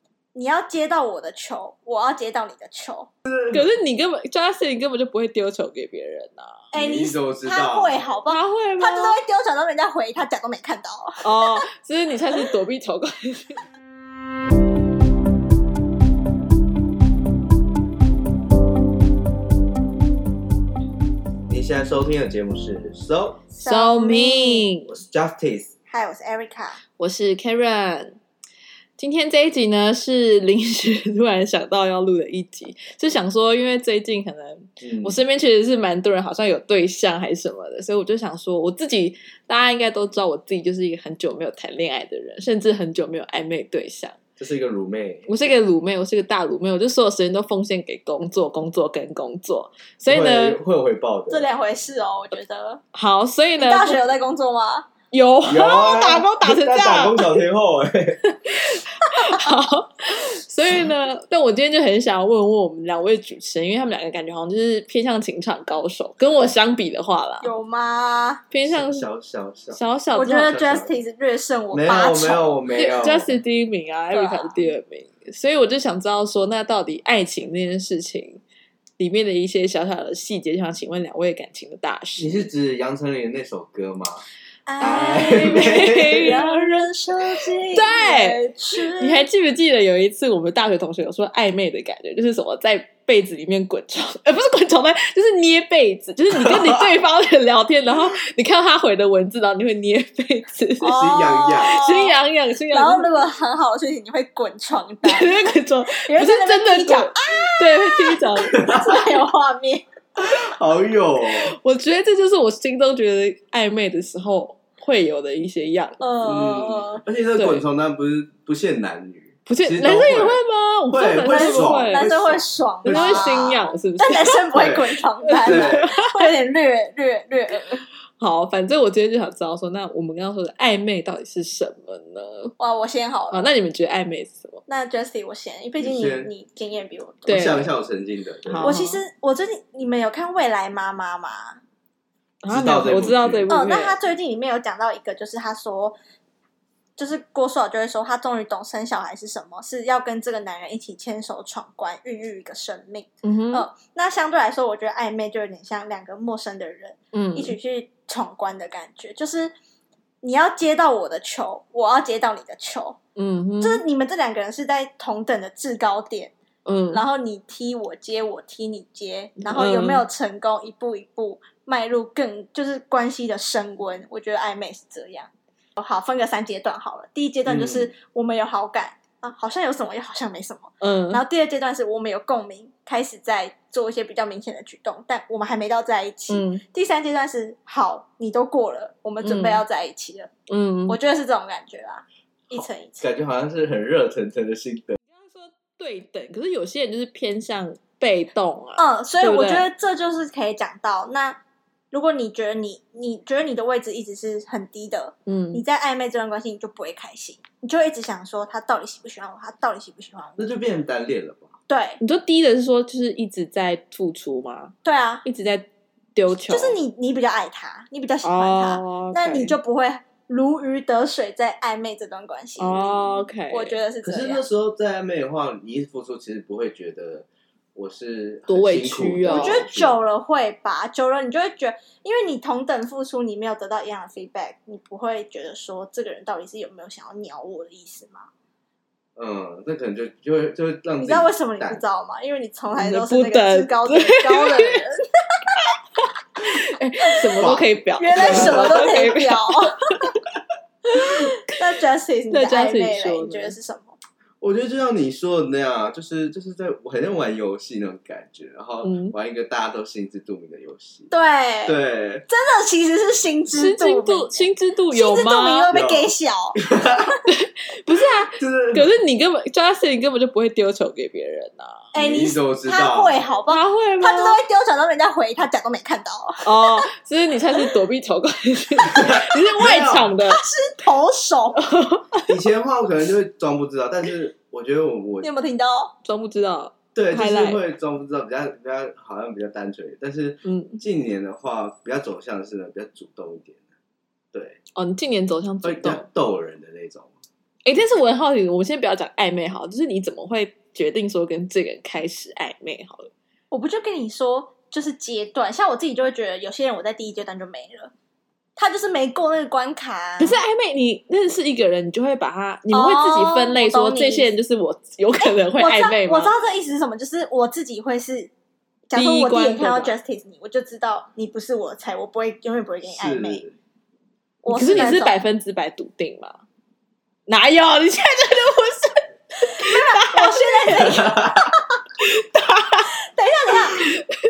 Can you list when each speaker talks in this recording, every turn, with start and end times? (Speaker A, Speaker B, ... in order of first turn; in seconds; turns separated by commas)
Speaker A: 0.3-3.1, Speaker B: 3.3-3.7, Speaker C: 3.5-6.7, Speaker A: 6.7-11.7, Speaker B: 6.8-8.0, Speaker C: 8.3-9.2, Speaker C: 11.2-13.6, Speaker B: 21.5-23.4, Speaker A: 23.6-24.7, Speaker C: 23.6-25.0, Speaker B: 24.9-25.7, Speaker A: 25.9-26.8, Speaker C: 27.0-28.2, Speaker C: 29.0-44.2, Speaker B: 34.8-35.2, Speaker B: 44.4-45.3, Speaker C: 45.3-50.6, Speaker B: 50.1-51.5, Speaker A: 51.3-52.8, Speaker C: 52.9-54.0, Speaker A: 53.6-54.9, Speaker C: 55.1-57.4, Speaker B: 55.4-58.4, Speaker C: 58.5-67.5, Speaker A: 59.0-59.4, Speaker A: 67.4-68.4, Speaker C: 68.5-69.1, Speaker B: 68.6-70.9, Speaker C: 69.7-70.5, Speaker A: 70.1-72.5, Speaker B: 71.7-73.4, Speaker C: 72.7-78.4, Speaker A: 74.1-74.7, Speaker C: 79.0-82.5, Speaker B: 82.2-84.2, Speaker A: 84.7-89.2, Speaker B: 84.8-86.4, Speaker C: 84.8-103.2, Speaker B: 96.3-97.0, Speaker A: 100.8-102.2, Speaker B: 100.8-101.9, Speaker A: 102.7-109.8, Speaker C: 105.0-108.6, Speaker B: 108.5-109.0, Speaker B: 110.2-111.5, Speaker C: 111.3-116.0, Speaker A: 116.0-117.0, Speaker B: 116.2-123.5, Speaker C: 117.4-117.6, Speaker C: 119.5-122.1, Speaker A: 121.2-127.8, Speaker C: 122.8-124.5, Speaker B: 124.5-124.8, Speaker C: 125.2-126.3, Speaker B: 125.4-125.9, Speaker C: 128.2-132.6, Speaker A: 132.6-133.5, Speaker C: 133.3-134.6, Speaker A: 134.7-137.4, Speaker B: 135.8-136.3, Speaker C: 137.3-137.7, Speaker B: 137.3-138.7, Speaker C: 138.5-139.0, Speaker A: 138.6-141.6, Speaker C: 142.4-144.0, Speaker B: 142.5-143.5, Speaker A: 143.5-146.0, Speaker A: 147.0-159.5, Speaker C: 153.2-153.7, Speaker C: 157.1-157.6, Speaker A: 160.2-163.0, Speaker C: 163.2-163.8, Speaker A: 163.6-166.3, Speaker C: 166.7-167.0, Speaker A: 166.9-190.3, Speaker C: 169.4-170.1, Speaker B: 177.5-177.9, Speaker C: 180.8-181.2, Speaker C: 186.3-186.6, Speaker C: 189.2-189.7, Speaker C: 190.5-191.0, Speaker A: 190.9-193.1, Speaker B: 192.5-195.0, Speaker C: 195.1-199.7, Speaker A: 198.8-201.4, Speaker A: 201.9-210.5, Speaker C: 205.3-205.6, Speaker B: 210.4-211.5, Speaker A: 211.7-212.0, Speaker C: 212.0-216.8, Speaker A: 214.8-215.2, Speaker A: 216.5-224.5, Speaker C: 218.2-219.6, Speaker C: 222.6-223.8, Speaker B: 224.0-230.0, Speaker C: 228.5-229.7, Speaker A: 229.3-238.3, Speaker B: 239.2-241.8, Speaker A: 241.0-245.6, Speaker C: 242.7-244.8, Speaker C: 246.4-249.9, Speaker B: 247.4-249.0, Speaker A: 248.0-250.1, Speaker A: 250.9-254.0, Speaker C: 250.9-251.3, Speaker C: 252.3-253.6, Speaker B: 254.4-261.1, Speaker C: 258.8-259.1, Speaker A: 261.1-261.8, Speaker B: 261.7-262.3, Speaker A: 262.3-267.2, Speaker C: 263.5-265.7, Speaker B: 265.7-267.1, Speaker C: 267.3-271.9, Speaker B: 268.4-268.9, Speaker A: 271.9-276.9, Speaker B: 272.0-273.2, Speaker C: 273.5-274.4, Speaker C: 276.4-280.4, Speaker B: 278.8-280.1, Speaker A: 280.2-281.6, Speaker C: 281.6-282.4, Speaker B: 282.3-285.3, Speaker A: 285.2-285.9, Speaker C: 286.1-287.6, Speaker B: 286.9-293.6, Speaker C: 290.4-290.8, Speaker B: 294.3-294.6, Speaker C: 294.8-296.0, Speaker B: 295.6-297.1, Speaker C: 297.6-303.1, Speaker A: 303.5-307.9, Speaker A: 308.6-310.4, Speaker C: 310.2-316.3, Speaker A: 312.7-314.3, Speaker A: 315.2-318.3, Speaker A: 318.9-323.4, Speaker C: 318.9-319.9, Speaker B: 322.9-323.6, Speaker A: 324.4-325.1, Speaker C: 324.5-326.4, Speaker C: 327.3-330.6, Speaker A: 329.4-331.8, Speaker B: 330.8-331.4, Speaker C: 332.0-332.9, Speaker A: 333.1-333.8, Speaker C: 333.7-334.1